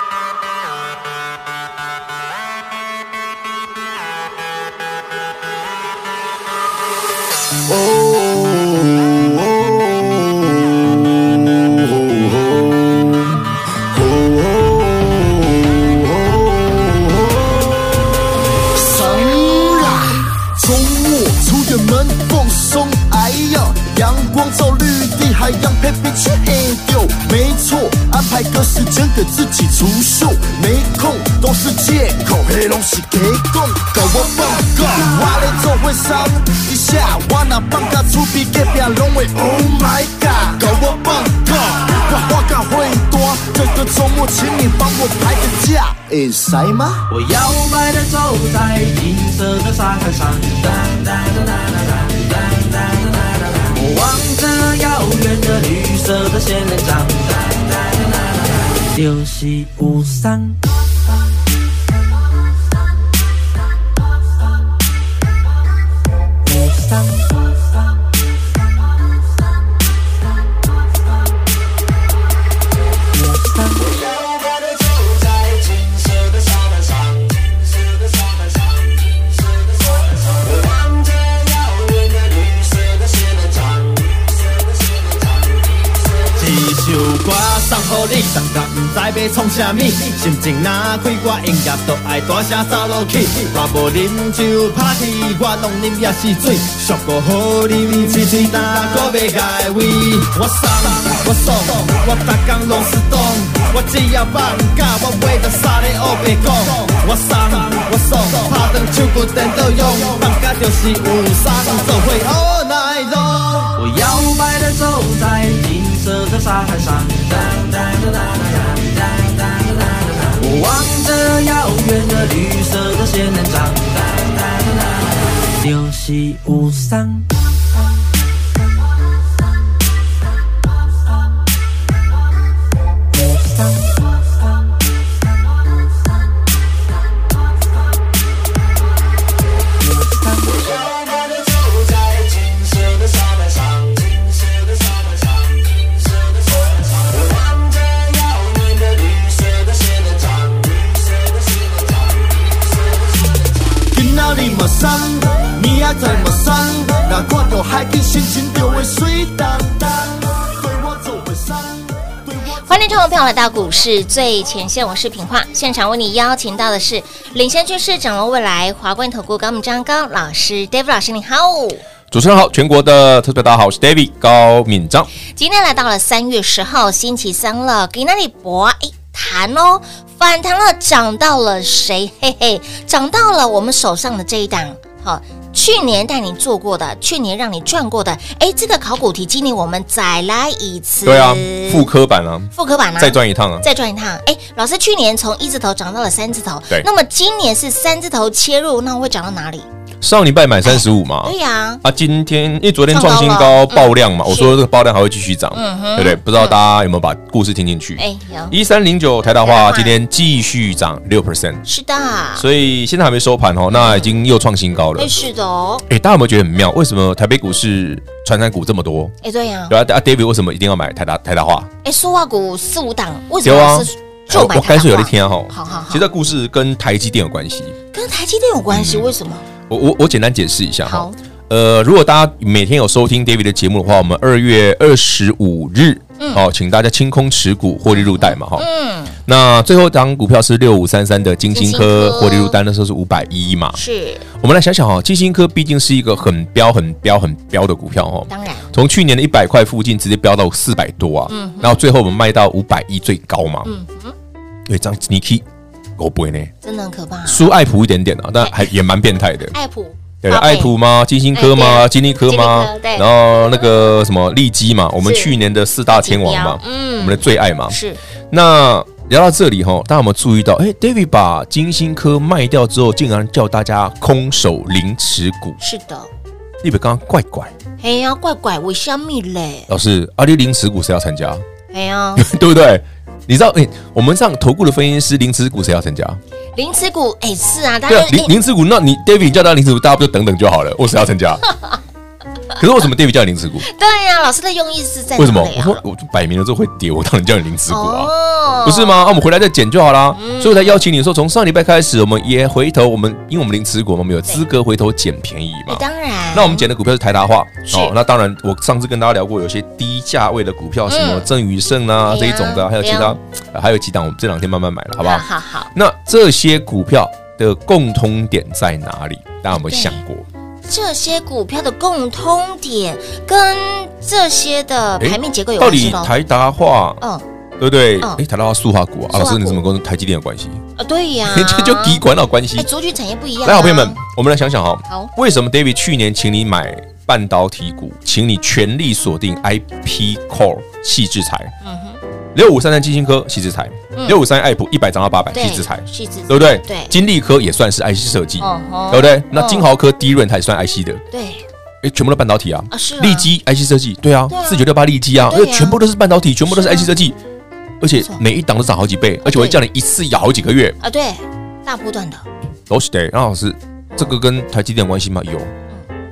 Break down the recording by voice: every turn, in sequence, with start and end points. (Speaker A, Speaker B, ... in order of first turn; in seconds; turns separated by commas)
Speaker A: 13.9-17.6, Speaker A: 18.7-47.0, Speaker B: 47.1-60.6, Speaker B: 66.5-67.4, Speaker B: 73.2-74.0, Speaker C: 86.3-113.5, Speaker B: 113.8-127.3, Speaker B: 133.2-133.9, Speaker A: 153.9-162.6, Speaker D: 162.7-171.8, Speaker E: 172.1-175.1, Speaker D: 175.3-191.9, Speaker E: 191.0-193.6, Speaker D: 192.5-199.7, Speaker E: 200.0-211.7, Speaker D: 200.7-201.8, Speaker D: 202.9-204.6, Speaker D: 205.5-206.6, Speaker D: 208.0-208.6, Speaker D: 209.4-210.0, Speaker D: 211.7-212.5, Speaker E: 212.4-215.1, Speaker D: 213.7-214.2, Speaker D: 215.0-215.9, Speaker E: 215.9-219.2, Speaker D: 219.2-219.8, Speaker E: 219.7-221.7, Speaker D: 221.8-226.1, Speaker E: 223.4-227.8, Speaker D: 227.9-229.4, Speaker E: 228.7-229.1, Speaker E: 229.7-238.7, Speaker D: 230.9-231.2, Speaker D: 237.9-239.2, Speaker E: 239.3-243.8, Speaker D: 241.5-242.6, Speaker D: 243.8-244.2, Speaker E: 244.4-253.7, Speaker D: 248.3-248.7, Speaker D: 251.3-251.8, Speaker D: 253.7-254.2, Speaker E: 254.7-255.4, Speaker E: 256.0-256.5, Speaker D: 256.6-257.5, Speaker E: 257.3-259.5, Speaker D: 259.5-260.8, Speaker E: 260.2-267.8, Speaker D: 261.3-263.7, Speaker D: 265.0-265.3, Speaker D: 265.9-268.0, Speaker E: 268.3-275.6, Speaker D: 275.6-276.1, Speaker E: 276.6-277.5, Speaker D: 277.8-279.7, Speaker E: 279.7-281.4, Speaker D: 281.7-282.2, Speaker E: 282.2-286.2, Speaker D: 286.6-288.3, Speaker E: 287.9-291.4, Speaker E: 292.6-293.7, Speaker D: 293.6-295.8, Speaker E: 295.2-298.1, Speaker D: 297.7-299.0, Speaker E: 298.6-320.3, Speaker D: 300.1-300.8, Speaker D: 305.7-306.7, Speaker D: 307.7-307.9, Speaker D: 310.9-311.3, Speaker D: 312.1-313.2, Speaker D: 315.0-315.7, Speaker D: 319.5-320.0, Speaker D: 320.7-326.1, Speaker E: 325.0-327.0, Speaker E: 327.6-330.6, Speaker D: 329.1-329.6, Speaker D: 330.8-332.0, Speaker E: 331.2-332.7, Speaker D: 332.6-334.0, Speaker E: 333.4-341.5, Speaker D: 341.6-342.0, Speaker E: 342.3-351.0, Speaker D: 343.9-344.2, Speaker D: 345.3-346.9, Speaker D: 348.4-349.7, Speaker D: 351.1-351.4, Speaker E: 351.8-357.2, Speaker D: 352.7-353.3, Speaker D: 354.3-354.6, Speaker D: 355.2-355.8, Speaker D: 356.6-356.9, Speaker E: 357.8-360.8, Speaker D: 359.2-359.6, Speaker D: 360.8-362.2, Speaker E: 362.7-365.5